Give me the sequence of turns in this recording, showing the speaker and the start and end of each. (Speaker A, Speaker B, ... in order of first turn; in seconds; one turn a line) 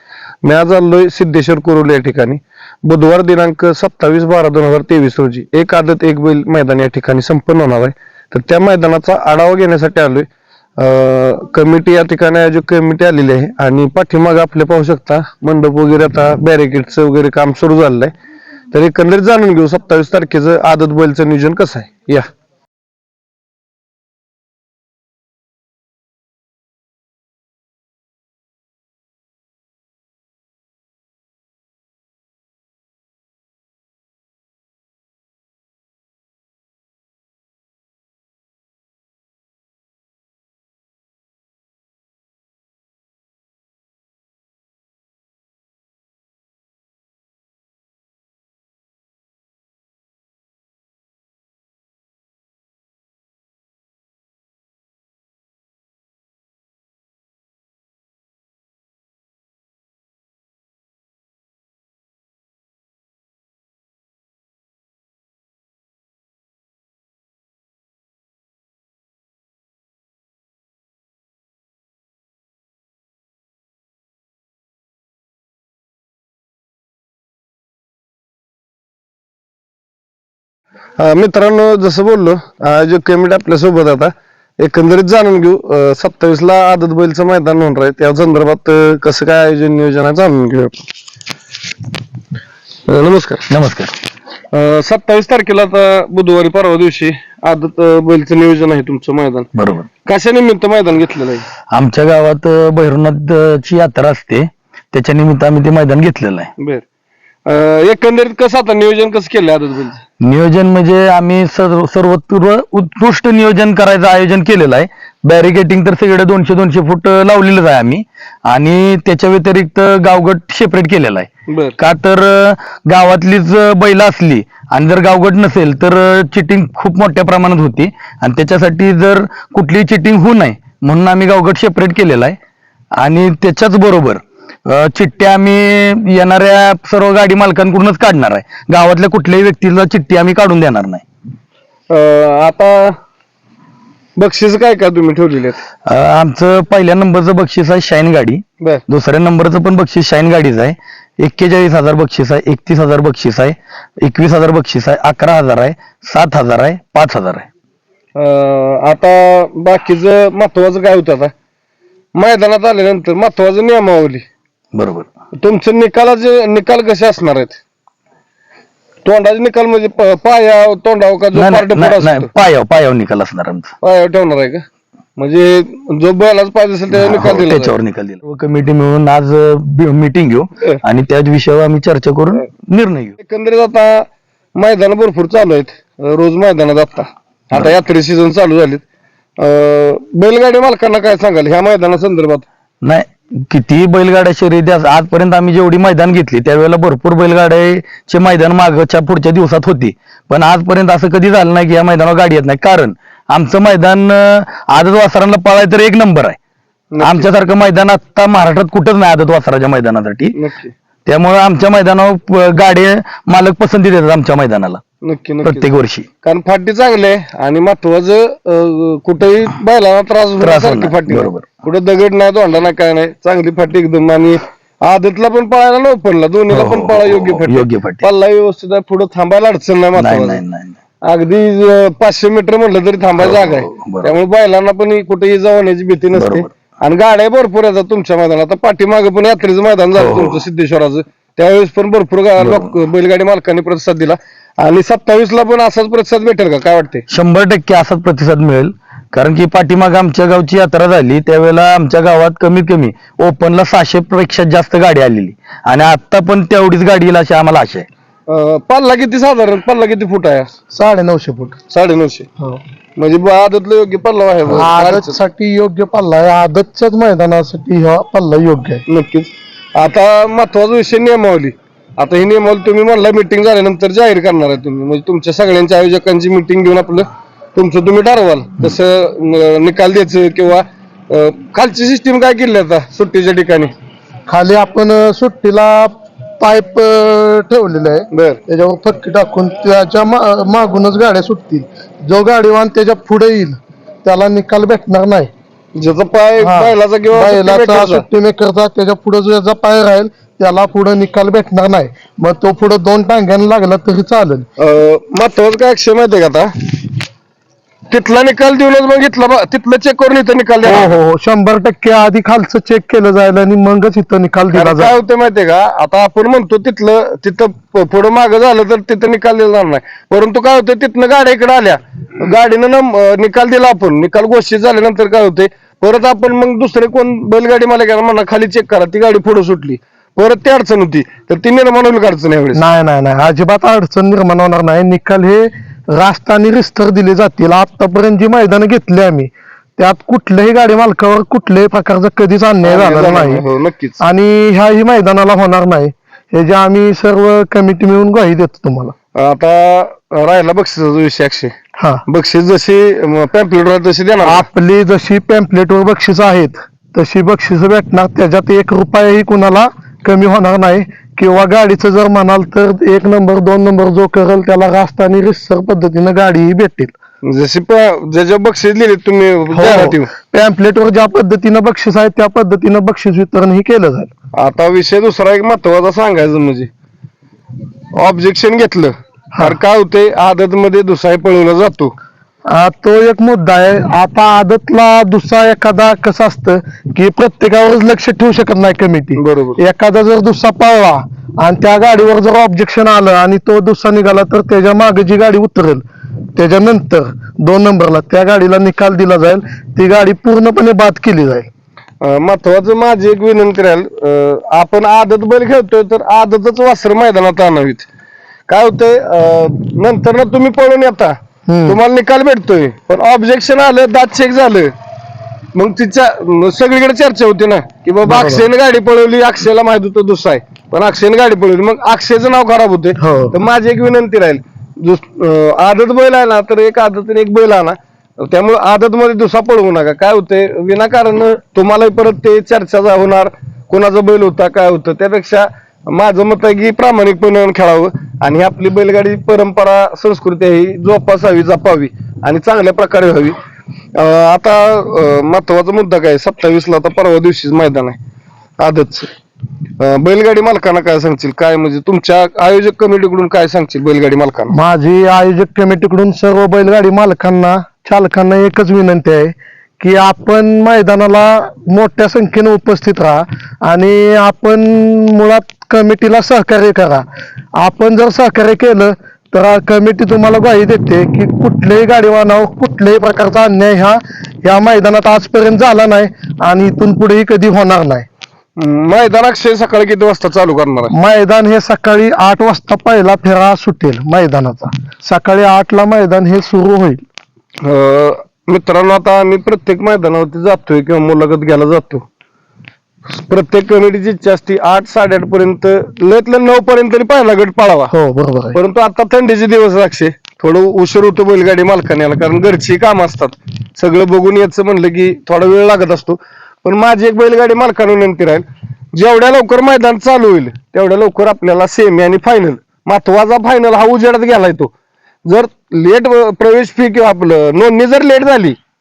Speaker A: 0.4-10.3
Speaker A: 10.8-18.1
Speaker A: 18.7-22.3
Speaker A: 81.0-90.8
Speaker A: 92.9-93.5
Speaker B: 93.5-93.9
Speaker A: 94.5-99.5
Speaker B: 99.5-99.9
Speaker A: 100.1-101.5
Speaker B: 101.7-106.5
Speaker A: 106.6-106.8
Speaker A: 107.5-110.0
Speaker B: 110.2-132.4
Speaker A: 121.5-121.8
Speaker B: 133.0-141.0
Speaker A: 141.9-142.9
Speaker A: 144.2-145.6
Speaker B: 145.9-157.5
Speaker A: 158.2-161.3
Speaker A: 162.2-164.2
Speaker B: 164.8-165.1
Speaker A: 165.4-167.6
Speaker A: 169.0-172.3
Speaker B: 171.3-173.7
Speaker A: 173.8-174.7
Speaker A: 175.2-177.7
Speaker B: 176.9-183.2
Speaker A: 183.2-188.8
Speaker A: 189.4-192.4
Speaker B: 192.8-206.4
Speaker A: 206.9-207.3
Speaker B: 207.0-210.3
Speaker A: 210.3-210.7
Speaker B: 211.1-214.8
Speaker A: 215.0-215.7
Speaker B: 215.4-216.1
Speaker A: 216.2-230.4
Speaker B: 220.4-221.5
Speaker B: 226.5-228.1
Speaker B: 229.9-230.8
Speaker A: 231.0-247.1
Speaker B: 233.2-234.1
Speaker B: 236.1-236.5
Speaker B: 239.9-240.4
Speaker B: 242.4-242.7
Speaker B: 247.1-257.9
Speaker A: 258.3-260.5
Speaker C: 260.7-261.6
Speaker A: 261.7-262.3
Speaker A: 263.0-265.2
Speaker C: 264.4-268.8
Speaker A: 268.9-283.7
Speaker C: 284.3-295.3
Speaker A: 288.1-288.4
Speaker A: 295.8-298.1
Speaker C: 296.4-304.5
Speaker A: 304.6-306.5
Speaker A: 307.9-310.9
Speaker C: 310.6-314.9
Speaker A: 314.5-332.6
Speaker C: 332.5-343.4
Speaker A: 342.6-344.0
Speaker C: 344.0-348.9
Speaker A: 349.2-351.5
Speaker A: 352.1-354.5
Speaker C: 354.2-366.9
Speaker A: 367.2-370.1
Speaker C: 369.5-374.1
Speaker A: 374.4-376.7
Speaker A: 378.0-381.9
Speaker C: 382.5-395.8
Speaker A: 389.2-389.6
Speaker C: 396.4-401.5
Speaker A: 402.0-407.9
Speaker A: 408.5-411.1
Speaker C: 411.5-411.8
Speaker A: 411.7-414.7
Speaker A: 415.6-443.4
Speaker C: 418.1-418.5
Speaker C: 423.0-423.4
Speaker A: 444.0-448.0
Speaker A: 448.6-449.1
Speaker A: 449.8-454.6
Speaker C: 454.5-467.1
Speaker C: 467.6-478.1
Speaker A: 478.6-480.9
Speaker C: 480.9-487.0
Speaker A: 487.6-492.1
Speaker A: 493.1-497.9
Speaker C: 497.9-498.6
Speaker A: 498.6-514.7
Speaker A: 515.2-518.6